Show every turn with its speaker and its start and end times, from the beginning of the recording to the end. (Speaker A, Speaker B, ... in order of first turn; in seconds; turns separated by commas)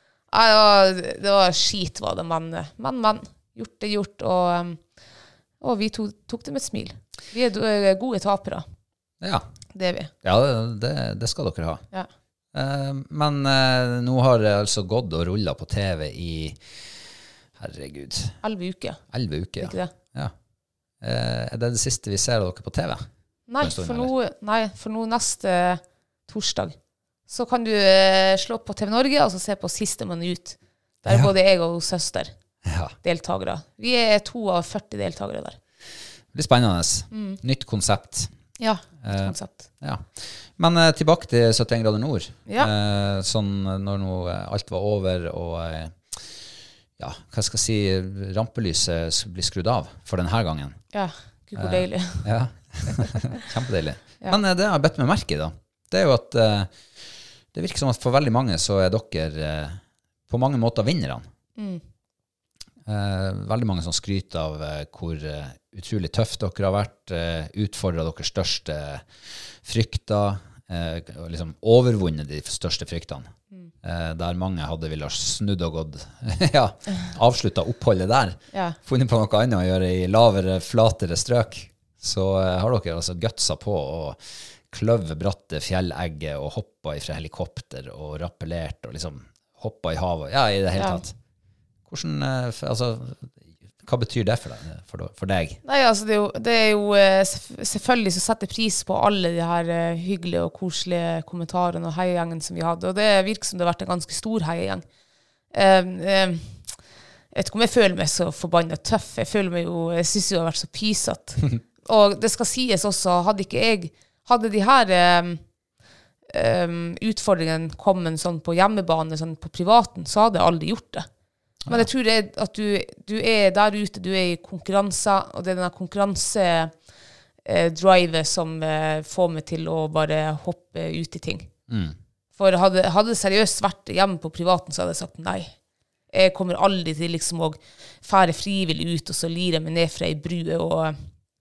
Speaker A: 0.3-4.8, Speaker A: 5.6-8.6, Speaker B: 9.2-9.4, Speaker A: 9.7-10.1, Speaker B: 10.2-11.8, Speaker B: 12.5-16.6, Speaker B: 17.6-18.3, Speaker A: 18.4-19.0, Speaker B: 19.1-20.3, Speaker A: 19.6-19.9, Speaker B: 21.0-23.1, Speaker A: 23.5-26.8, Speaker B: 23.6-24.1, Speaker A: 27.3-32.3, Speaker B: 31.1-31.3, Speaker B: 32.6-33.0, Speaker A: 33.0-35.6, Speaker B: 36.3-38.3, Speaker A: 37.1-37.4, Speaker A: 38.6-39.7, Speaker B: 39.0-46.2, Speaker B: 47.0-50.8, Speaker A: 50.9-52.3, Speaker B: 51.6-56.7, Speaker B: 57.5-61.3, Speaker B: 62.9-69.0, Speaker B: 69.6-73.3, Speaker B: 73.8-84.2, Speaker A: 78.5-78.8, Speaker B: 84.7-91.1, Speaker A: 90.8-91.0, Speaker B: 91.9-93.3, Speaker B: 93.8-95.6, Speaker A: 95.6-104.8, Speaker A: 105.5-106.6, Speaker A: 107.3-115.4, Speaker A: 116.3-121.1, Speaker A: 121.7-126.7, Speaker A: 127.5-131.5, Speaker B: 131.7-131.9, Speaker A: 132.4-135.5, Speaker A: 136.1-141.0